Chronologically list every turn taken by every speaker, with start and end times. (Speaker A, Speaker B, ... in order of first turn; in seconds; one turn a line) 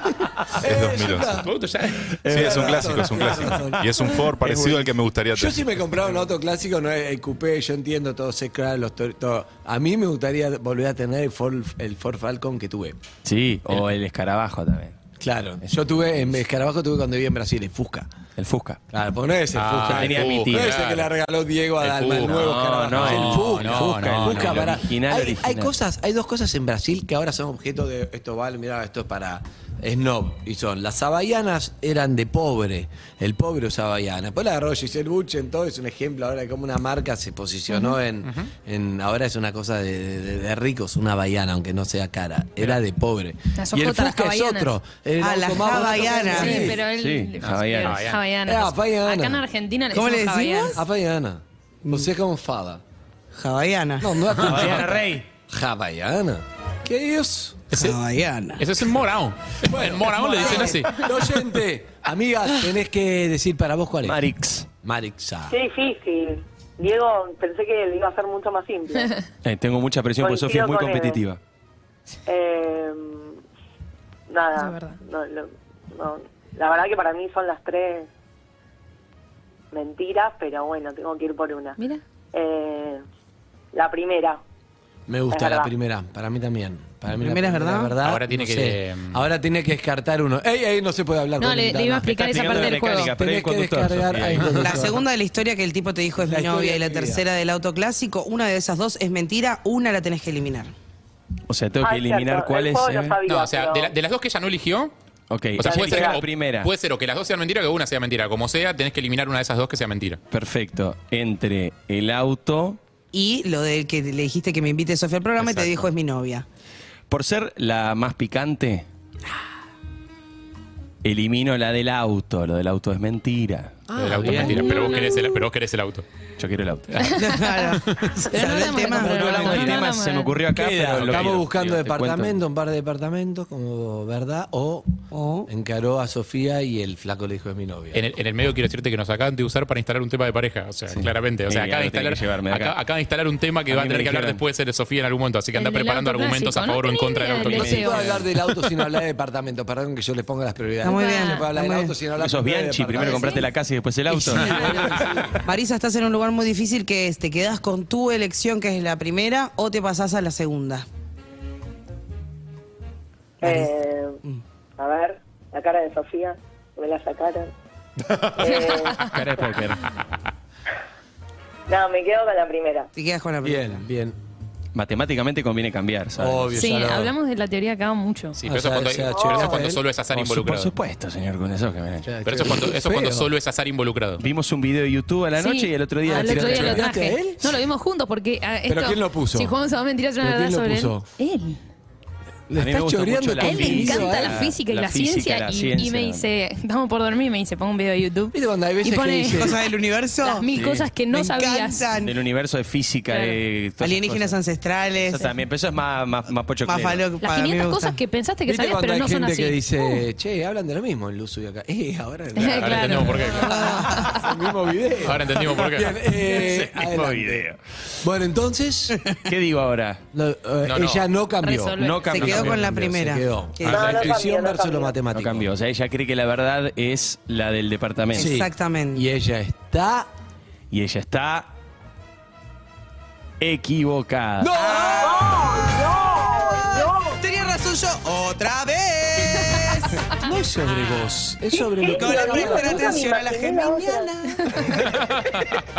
Speaker A: 0.6-1.5
Speaker B: 0.6-1.5
Speaker C: 1.4-2.2
Speaker D: 2.2-3.8
Speaker A: 2.3-4.2
Speaker B: 2.3-5.7
Speaker D: 4.4-4.9
Speaker A: 5.3-13.0
Speaker D: 13.2-15.0
Speaker A: 15.2-18.1
Speaker D: 18.4-18.8
Speaker A: 18.9-46.8
Speaker C: 19.5-21.1
Speaker D: 19.9-20.8
Speaker C: 21.8-24.8
Speaker D: 22.2-25.7
Speaker E: 43.5-44.7
Speaker F: 45.2-46.8
Speaker E: 46.2-50.8
Speaker D: 46.8-48.1
Speaker C: 47.4-48.2
Speaker A: 48.4-49.4
Speaker F: 49.9-50.8
Speaker A: 50.7-52.8
Speaker F: 51.8-52.1
Speaker F: 53.3-54.2
Speaker A: 54.0-57.7
Speaker D: 54.4-55.3
Speaker C: 57.7-58.0
Speaker F: 57.7-58.7
Speaker C: 58.6-61.1
Speaker A: 59.6-64.2
Speaker F: 60.4-60.8
Speaker D: 64.0-64.7
Speaker A: 64.8-65.6
Speaker G: 65.5-69.1
Speaker D: 69.4-71.4
Speaker G: 70.2-71.2
Speaker G: 72.2-73.4
Speaker G: 74.3-78.1
Speaker E: 74.5-75.0
Speaker G: 79.7-81.8
Speaker G: 82.3-83.0
Speaker G: 83.7-84.4
Speaker A: 85.1-95.0
Speaker G: 85.3-85.7
Speaker F: 87.2-88.0
Speaker C: 88.0-89.2
Speaker E: 91.4-93.1
Speaker D: 92.1-94.8
Speaker F: 94.5-100.7
Speaker A: 96.2-97.2
Speaker D: 101.5-103.2
Speaker G: 101.8-103.9
Speaker C: 103.3-104.9
Speaker D: 105.3-106.7
Speaker C: 105.6-110.2
Speaker G: 105.6-106.2
Speaker D: 110.3-112.8
Speaker F: 113.1-116.5
Speaker D: 117.1-118.9
Speaker D: 121.0-123.8
Speaker A: 123.9-124.9
Speaker C: 124.0-126.0
Speaker E: 124.2-125.4
Speaker D: 126.4-127.1
Speaker F: 127.1-129.5
Speaker E: 128.3-130.4
Speaker D: 128.9-132.4
Speaker A: 129.4-129.8
Speaker A: 130.5-138.0
Speaker C: 131.1-131.3
Speaker F: 135.1-135.5
Speaker C: 137.9-148.1
Speaker D: 140.9-142.8
Speaker D: 143.7-144.4
Speaker E: 145.5-148.1
Speaker A: 147.5-153.4
Speaker F: 150.8-151.9
Speaker E: 150.9-151.4
Speaker D: 152.2-154.8
Speaker E: 153.0-153.4
Speaker F: 154.1-160.9
Speaker E: 154.4-155.0
Speaker A: 154.7-154.9
Speaker G: 163.4-164.2
Speaker F: 163.4-163.7
Speaker G: 164.8-167.5
Speaker G: 168.3-169.1
Speaker E: 168.6-169.0
Speaker D: 169.1-169.8
Speaker C: 169.1-170.0
Speaker G: 171.7-172.9
Speaker F: 172.9-173.8
Speaker A: 173.4-174.2
Speaker D: 174.7-176.6
Speaker A: 176.2-177.1
Speaker E: 176.6-178.4
Speaker C: 178.4-180.7
Speaker A: 178.4-179.8
Speaker G: 179.1-179.6
Speaker D: 180.1-182.1
Speaker A: 182.0-183.3
Speaker C: 182.2-184.2
Speaker D: 184.2-186.9
Speaker E: 185.4-191.6
Speaker A: 186.1-187.6
Speaker A: 188.7-189.5
Speaker A: 190.2-191.1
Speaker A: 192.5-194.5
Speaker D: 192.5-196.2
Speaker E: 193.4-199.5
Speaker A: 198.3-199.6
Speaker F: 199.3-200.5
Speaker E: 200.2-201.9
Speaker D: 200.5-200.9
Speaker F: 201.1-202.1
Speaker D: 201.9-204.4
Speaker E: 203.1-203.4
Speaker F: 203.8-205.2
Speaker D: 205.0-207.0
Speaker F: 206.6-208.0
Speaker E: 207.2-210.0
Speaker A: 208.4-217.5
Speaker E: 212.3-214.3
Speaker C: 212.4-213.6
Speaker F: 213.6-214.1
Speaker C: 215.0-216.0
Speaker D: 215.6-217.6
Speaker A: 218.0-219.0
Speaker D: 219.2-220.0
Speaker A: 220.1-225.5
Speaker C: 220.6-221.1
Speaker E: 221.4-222.4
Speaker D: 221.8-222.6
Speaker F: 222.0-223.8
Speaker C: 222.1-222.6
Speaker C: 223.6-224.2
Speaker G: 223.7-224.9
Speaker D: 225.1-228.3
Speaker F: 228.1-229.1
Speaker A: 228.1-230.1
Speaker D: 230.7-231.5
Speaker D: 233.4-234.5
Speaker A: 234.4-235.8
Speaker F: 234.5-235.6
Speaker G: 235.0-237.2
Speaker F: 237.2-240.1
Speaker A: 240.1-243.1
Speaker G: 241.5-244.2
Speaker F: 241.8-244.6
Speaker A: 244.5-244.9